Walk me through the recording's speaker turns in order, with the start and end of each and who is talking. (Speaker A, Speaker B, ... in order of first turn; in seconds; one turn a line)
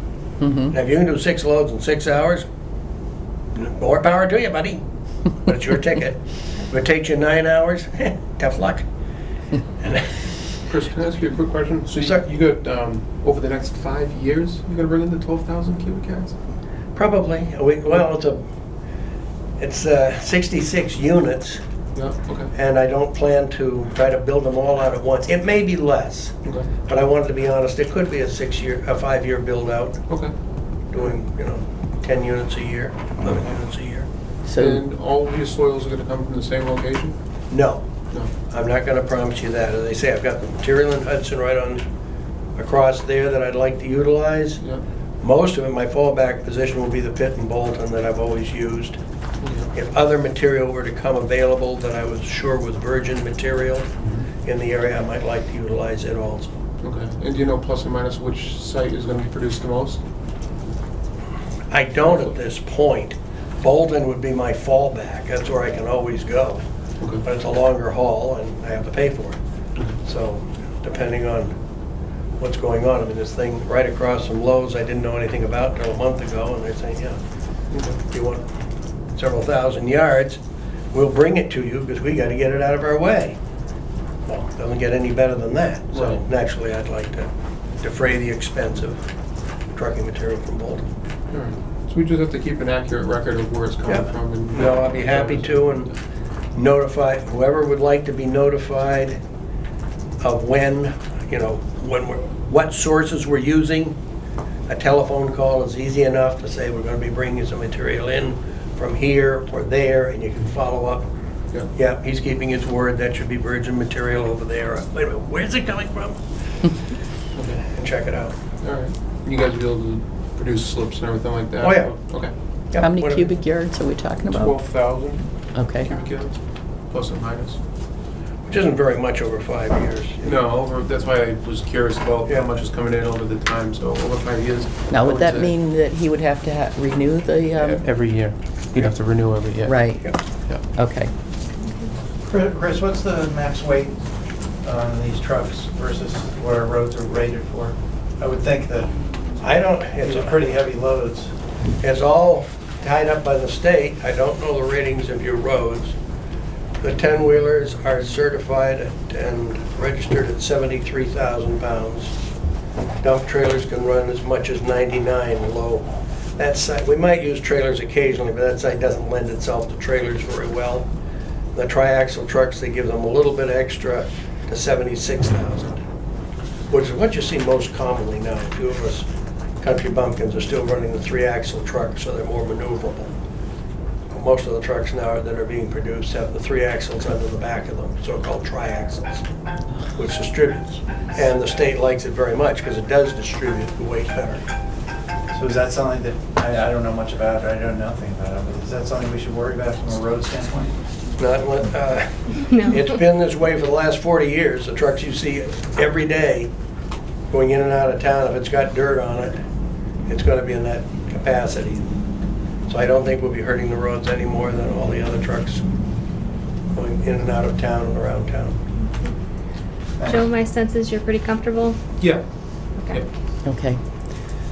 Speaker A: 0.4-0.7
Speaker B: 0.7-2.5
Speaker B: 3.5-4.8
Speaker B: 5.4-8.8
Speaker B: 9.8-10.1
Speaker C: 10.7-16.4
Speaker B: 11.9-12.2
Speaker B: 16.9-18.4
Speaker B: 19.6-21.6
Speaker C: 21.9-22.5
Speaker B: 22.5-30.0
Speaker C: 26.4-26.7
Speaker C: 30.1-30.3
Speaker B: 30.9-34.1
Speaker A: 34.5-34.8
Speaker C: 34.6-37.2
Speaker B: 37.5-37.8
Speaker B: 38.5-41.8
Speaker B: 42.5-44.6
Speaker B: 45.2-49.0
Speaker C: 49.4-49.7
Speaker B: 49.7-53.9
Speaker C: 54.0-54.3
Speaker B: 54.4-56.5
Speaker C: 56.8-60.0
Speaker B: 61.7-66.6
Speaker C: 62.0-62.3
Speaker B: 67.2-69.4
Speaker B: 70.0-71.5
Speaker B: 72.4-77.2
Speaker C: 77.7-78.0
Speaker B: 78.1-78.5
Speaker B: 79.1-80.4
Speaker B: 80.9-83.4
Speaker B: 84.2-87.3
Speaker C: 85.9-86.2
Speaker B: 87.8-89.0
Speaker B: 89.7-90.8
Speaker C: 91.3-95.9
Speaker B: 93.9-95.9
Speaker B: 96.5-99.2
Speaker B: 100.2-104.0
Speaker B: 104.7-111.1
Speaker B: 111.7-116.2
Speaker C: 117.3-117.6
Speaker B: 117.7-118.3
Speaker C: 118.6-122.3
Speaker B: 121.6-122.0
Speaker B: 122.7-123.3
Speaker A: 122.8-124.5
Speaker C: 124.2-127.6
Speaker A: 125.5-125.9
Speaker B: 128.5-130.4
Speaker C: 130.2-135.5
Speaker A: 134.9-137.8
Speaker C: 137.6-140.6
Speaker A: 139.7-140.2
Speaker A: 140.7-141.1
Speaker D: 142.2-144.0
Speaker D: 144.6-149.0
Speaker B: 149.4-150.5
Speaker D: 150.0-151.3
Speaker B: 151.8-156.0
Speaker B: 156.8-162.1
Speaker B: 163.0-170.9
Speaker B: 171.5-175.8
Speaker B: 176.7-179.1
Speaker B: 179.6-183.1
Speaker B: 184.1-189.2
Speaker B: 189.9-194.4
Speaker D: 195.3-200.8
Speaker B: 201.2-206.5
Speaker E: 202.5-202.8
Speaker B: 207.3-209.4
Speaker B: 210.1-211.9
Speaker B: 212.7-215.6
Speaker B: 216.7-218.6
Speaker E: 220.0-221.8
Speaker C: 222.0-222.2
Speaker E: 222.8-223.0
Speaker A: 223.4-223.8